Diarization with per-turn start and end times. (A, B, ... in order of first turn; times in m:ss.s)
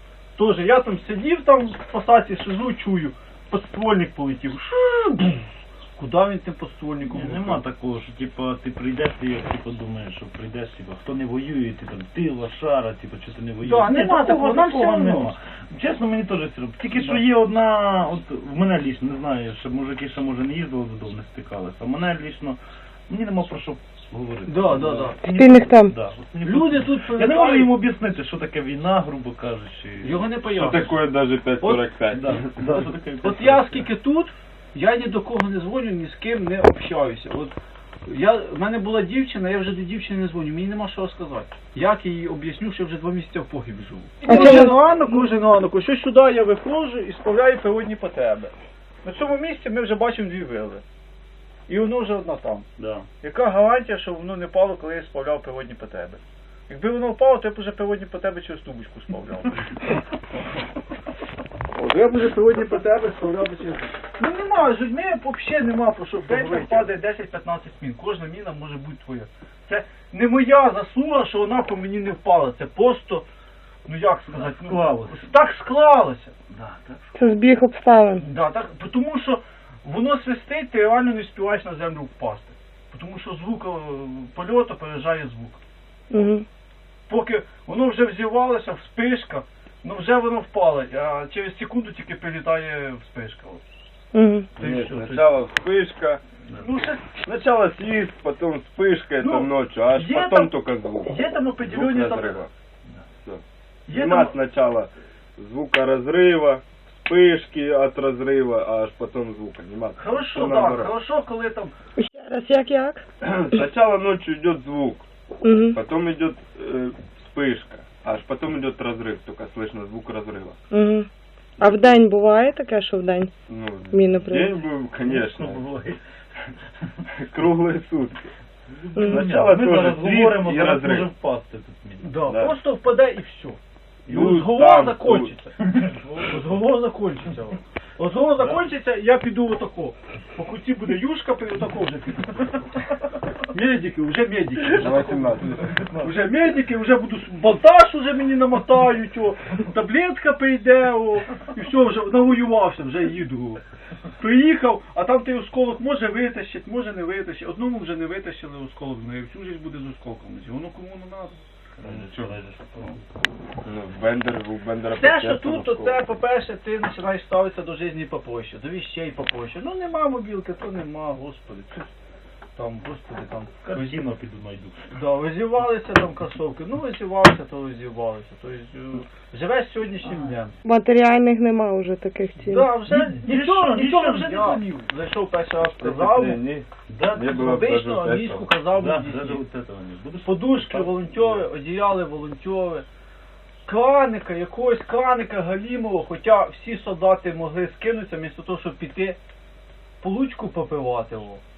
0:00.4-0:07.6 A
0:07.0-0:30.2 B
0:13.6-0:15.3 A
0:16.9-0:17.2 A
0:24.4-0:25.2 A
0:25.2-0:25.9 C
0:26.4-0:27.7 A
0:30.0-0:30.9 A
0:30.5-0:32.5 D
0:31.6-0:31.9 A
0:32.1-0:33.8 B
0:32.6-0:37.5 A
0:38.0-0:50.8 A
0:44.2-0:44.8 C
0:51.7-0:52.7 A
0:52.8-0:53.0 B
0:53.2-0:59.9 A
1:01.7-1:13.2 A
1:06.3-1:06.9 B
1:13.8-1:16.3 A
1:14.3-1:15.3 B
1:16.5-1:17.3 B
1:17.2-1:18.2 C
1:18.2-1:25.6 A
1:26.1-1:26.4 C
1:27.1-1:33.6 A
1:34.1-1:34.5 C
1:34.6-1:35.4 A
1:34.6-1:36.2 D
1:36.5-1:37.2 A
1:37.2-1:42.5 D
1:39.2-1:42.4 A
1:43.2-1:50.9 D
1:43.9-1:44.4 A
1:50.0-1:51.7 A
1:52.0-1:53.0 C
1:53.2-2:00.6 D
1:55.4-1:55.8 C
2:00.7-2:01.1 C
2:01.6-2:02.0 D
2:01.6-2:03.3 C
2:03.5-2:05.6 D
2:03.9-2:04.6 C
2:05.0-2:06.0 B
2:07.1-2:08.3 D
2:08.7-2:12.1 B
2:09.0-2:09.3 C
2:09.0-2:11.1 D
2:12.0-2:22.9 A
2:12.3-2:12.6 D
2:14.0-2:15.4 D
2:15.6-2:16.0 B
2:18.3-2:18.6 B
2:23.5-2:33.6 A
2:24.8-2:26.1 D
2:34.1-2:41.4 A
2:41.8-2:43.0 B
2:41.8-2:42.3 D
2:43.6-2:46.0 D
2:44.9-2:51.9 A
2:52.6-2:54.0 A
2:53.6-2:54.8 B
2:54.9-3:00.6 A
3:00.6-3:02.7 C
3:02.4-3:06.4 A
3:02.9-3:04.6 B
3:05.6-3:08.5 D
3:06.9-3:07.6 B
3:07.3-3:09.4 A
3:08.7-3:11.5 B
3:10.2-3:12.8 A
3:13.6-3:19.2 A
3:20.0-3:21.4 A